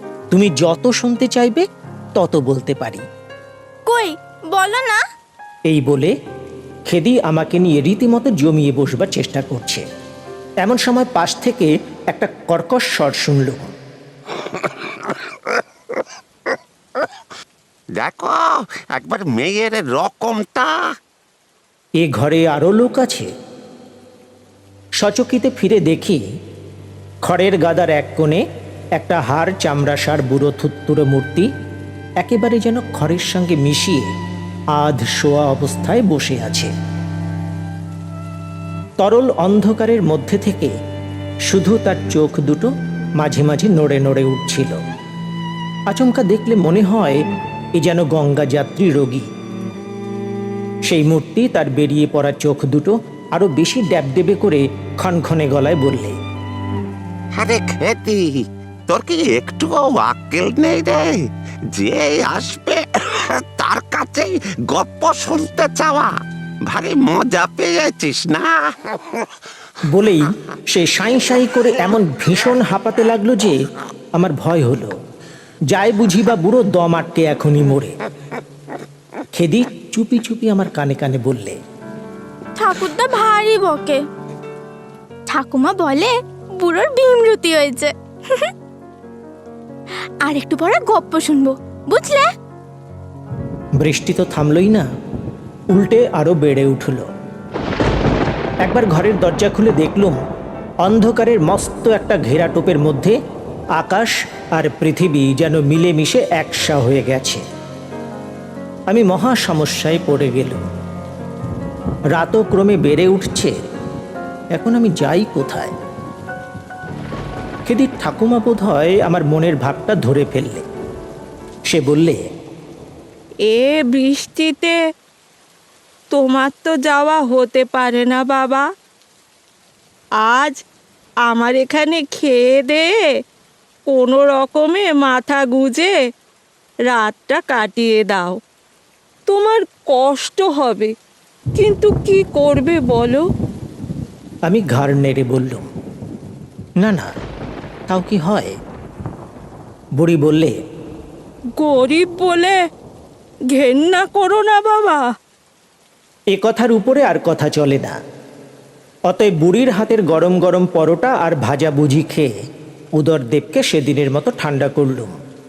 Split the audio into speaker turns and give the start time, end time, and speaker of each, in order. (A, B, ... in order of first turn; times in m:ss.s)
0:00.3-0:03.0 A
0:03.9-0:05.0 B
0:05.7-0:06.1 A
0:06.9-0:09.8 A
0:10.6-0:13.7 A
0:14.4-0:16.1 C
0:18.0-0:20.8 C
0:22.0-0:23.3 A
0:25.0-0:26.2 A
0:27.2-0:28.4 A
0:29.0-0:31.5 A
0:32.2-0:34.1 A
0:34.7-0:36.7 A
0:39.0-0:40.7 A
0:41.5-0:44.8 A
0:45.9-0:47.2 A
0:47.8-0:49.3 A
0:50.9-0:56.2 A
0:57.4-1:06.1 C
1:06.7-1:09.3 C
1:09.8-1:13.6 A
1:14.2-1:14.9 A
1:15.7-1:17.9 A
1:19.3-1:21.6 A
1:22.6-1:24.0 B
1:25.3-1:28.5 B
1:30.2-1:32.3 B
1:33.8-1:34.9 A
1:35.7-1:37.1 A
1:38.6-1:40.2 A
1:40.8-1:43.2 A
1:43.8-1:47.4 A
1:48.9-1:50.6 A
1:52.2-1:53.5 A
1:54.6-1:55.7 A
1:57.7-2:00.7 A
2:01.7-2:02.2 A
2:03.4-2:04.8 D
2:06.1-2:08.7 D
2:10.2-2:10.6 D
2:11.3-2:13.1 D
2:13.9-2:15.9 D
2:16.9-2:18.4 D
2:19.3-2:20.9 D
2:21.6-2:23.2 D
2:24.5-2:25.7 A
2:26.8-2:27.1 A
2:27.9-2:28.5 A
2:30.0-2:30.6 A
2:31.6-2:32.6 D
2:33.5-2:35.1 D
2:36.3-2:38.0 A
2:39.1-2:42.3 A
2:43.0-2:45.2 A